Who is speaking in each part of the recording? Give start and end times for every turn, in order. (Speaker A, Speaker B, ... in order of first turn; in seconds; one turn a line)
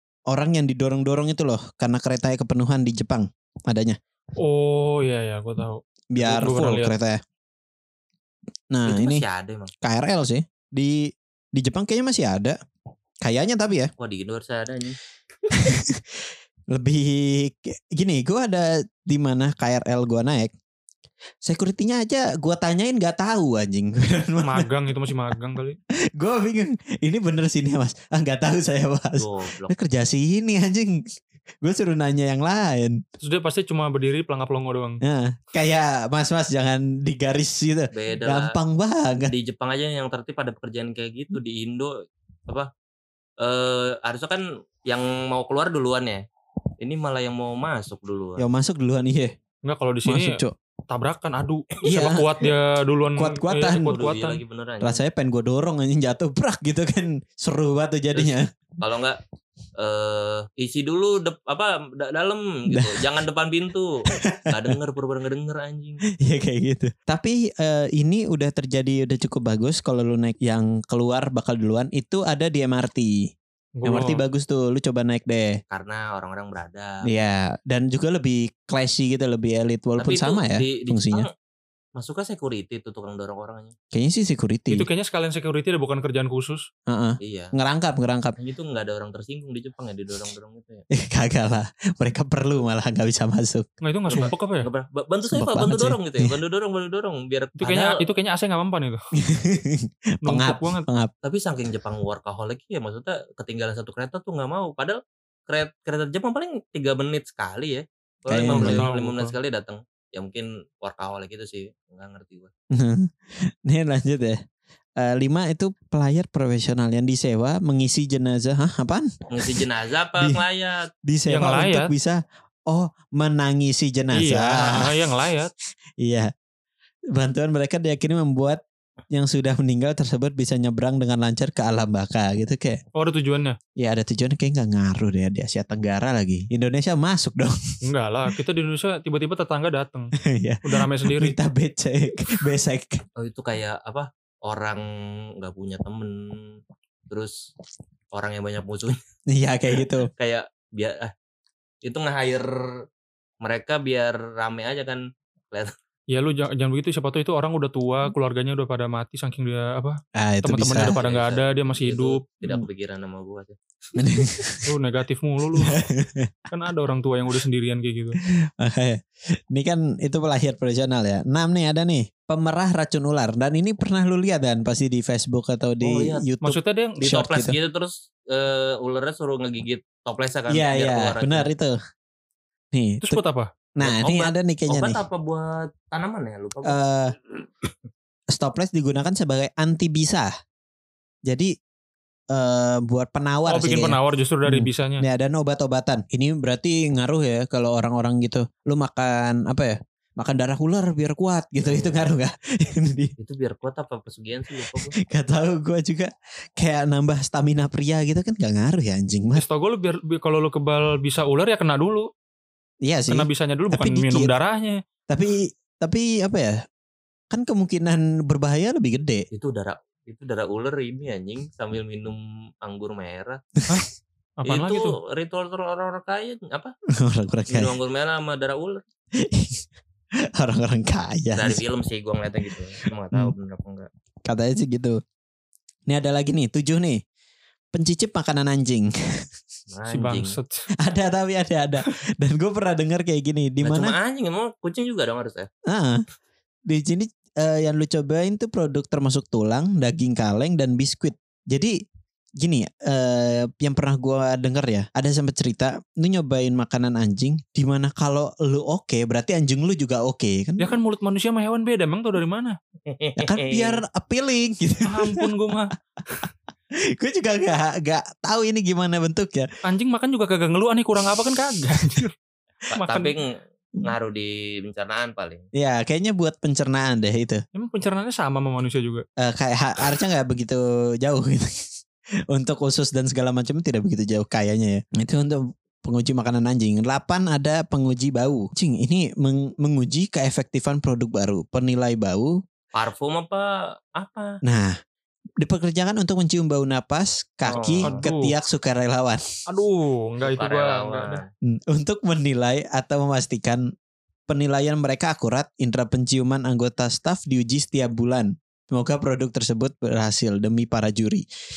Speaker A: 0.3-4.0
Speaker B: 4.4-7.0
Speaker A: 6.1-7.2
Speaker A: 8.7-9.2
Speaker C: 8.9-9.7
Speaker A: 9.8-12.6
Speaker A: 13.2-13.9
Speaker C: 14.0-15.0
Speaker A: 15.5-20.5
Speaker A: 21.4-24.7
Speaker B: 24.4-25.8
Speaker A: 26.2-33.0
Speaker C: 29.2-29.7
Speaker B: 33.2-35.0
Speaker A: 35.0-39.3
Speaker C: 37.9-38.6
Speaker C: 39.2-41.9
Speaker C: 43.4-46.2
Speaker C: 46.8-48.5
Speaker A: 48.4-49.3
Speaker B: 49.6-54.4
Speaker A: 50.0-50.5
Speaker A: 51.8-52.5
Speaker A: 53.1-54.0
Speaker C: 53.9-55.0
Speaker A: 54.8-58.5
Speaker C: 58.8-59.2
Speaker C: 59.8-66.0
Speaker A: 62.7-63.1
Speaker A: 64.1-64.8
Speaker A: 66.2-73.3
Speaker B: 73.8-74.2
Speaker A: 73.8-75.6
Speaker C: 75.7-77.0
Speaker A: 77.0-81.3
Speaker C: 80.0-81.3
Speaker C: 82.0-83.8
Speaker A: 83.9-84.9
Speaker B: 84.7-86.7
Speaker A: 86.9-88.4
Speaker C: 87.2-87.5
Speaker C: 88.4-90.8
Speaker A: 90.9-93.7
Speaker B: 93.8-94.7
Speaker C: 94.1-98.0
Speaker A: 95.3-96.3
Speaker B: 97.6-99.0
Speaker A: 99.2-101.1
Speaker B: 100.2-100.9
Speaker C: 101.2-112.5
Speaker A: 108.3-108.8
Speaker B: 108.5-109.3
Speaker A: 112.7-114.4
Speaker A: 115.0-119.6
Speaker C: 119.3-120.9
Speaker A: 121.0-125.1
Speaker B: 121.3-121.9
Speaker B: 124.1-125.5
Speaker A: 126.0-126.3
Speaker A: 127.1-132.8
Speaker B: 132.9-133.6
Speaker A: 133.8-137.8
Speaker B: 137.8-141.3
Speaker A: 140.2-143.0
Speaker C: 143.2-147.5
Speaker C: 148.1-149.0
Speaker A: 149.3-150.1
Speaker C: 150.1-151.1
Speaker C: 151.8-152.7
Speaker C: 153.4-155.7
Speaker B: 156.1-162.3
Speaker A: 160.2-160.9
Speaker C: 160.8-163.6
Speaker A: 164.0-164.7
Speaker B: 164.6-165.8
Speaker A: 165.5-166.4
Speaker B: 166.5-168.2
Speaker A: 168.2-177.6
Speaker C: 175.8-176.2
Speaker B: 176.4-177.2
Speaker C: 177.0-181.5
Speaker A: 180.5-181.8
Speaker A: 182.7-183.2
Speaker B: 183.0-183.5
Speaker A: 183.8-185.0
Speaker C: 183.8-186.8
Speaker A: 186.7-187.2
Speaker A: 188.3-190.3
Speaker A: 191.3-191.5
Speaker A: 192.3-203.1
Speaker B: 193.5-195.1
Speaker C: 201.6-202.1
Speaker C: 203.2-204.9
Speaker A: 204.6-209.4
Speaker B: 209.4-212.1
Speaker A: 212.8-214.3
Speaker B: 213.1-214.8
Speaker A: 215.1-216.6
Speaker A: 217.3-219.3
Speaker C: 219.3-223.4
Speaker B: 224.4-224.9
Speaker C: 224.5-226.7
Speaker A: 226.9-227.8
Speaker C: 227.5-228.8
Speaker A: 229.2-229.7
Speaker A: 230.3-231.6
Speaker C: 231.3-233.9
Speaker A: 234.2-235.0
Speaker A: 235.9-237.0
Speaker A: 237.7-239.3
Speaker C: 239.7-240.4
Speaker B: 239.9-240.7
Speaker A: 240.8-243.9
Speaker C: 243.6-245.5
Speaker A: 245.7-246.0
Speaker A: 246.7-251.8
Speaker A: 252.4-260.8
Speaker B: 260.6-262.6
Speaker C: 262.9-263.8
Speaker A: 263.2-265.3
Speaker B: 264.9-266.3
Speaker A: 266.8-269.5
Speaker B: 269.6-272.1
Speaker B: 272.7-273.1
Speaker C: 272.7-275.5
Speaker A: 275.5-277.4
Speaker B: 277.6-279.1
Speaker A: 279.2-281.7
Speaker A: 282.3-292.4
Speaker C: 292.8-294.4
Speaker A: 294.4-294.8
Speaker A: 295.4-299.2
Speaker C: 297.5-298.1
Speaker B: 297.8-298.4
Speaker B: 299.5-301.2
Speaker C: 300.2-301.3
Speaker A: 301.4-303.7
Speaker A: 304.3-311.3